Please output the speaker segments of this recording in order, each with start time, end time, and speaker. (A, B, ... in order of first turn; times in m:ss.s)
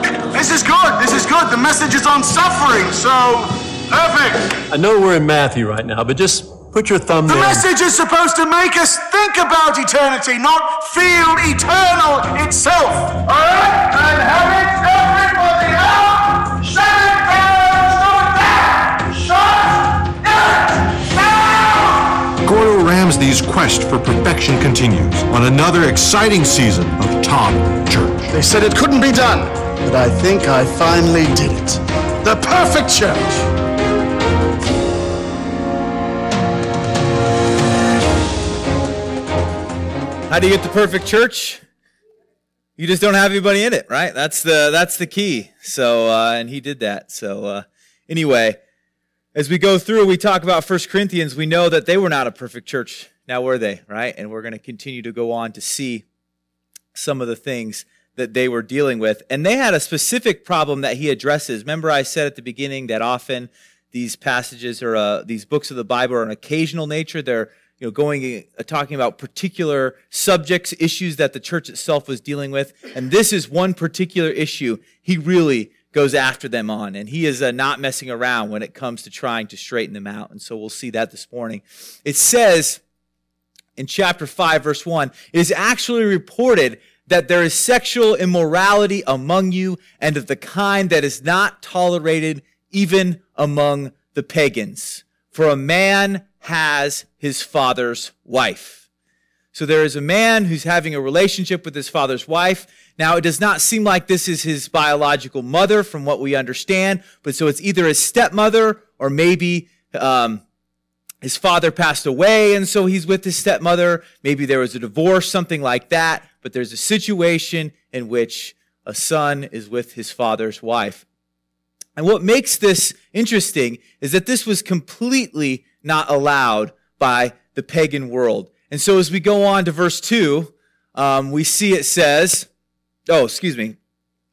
0:00.3-0:04.6 A
0:04.7-0:07.6 B
0:07.2-0:22.2 A
0:22.4-0:28.3 C
0:28.3-0:33.5 A
0:40.3-0:41.6 D
0:42.8-0:48.6 D
0:49.3-0:56.0 D
0:56.9-1:22.8 D
1:23.8-1:38.8 D
1:39.5-1:50.4 D
1:51.2-2:01.0 D
2:02.0-2:12.5 D
2:13.1-2:13.8 D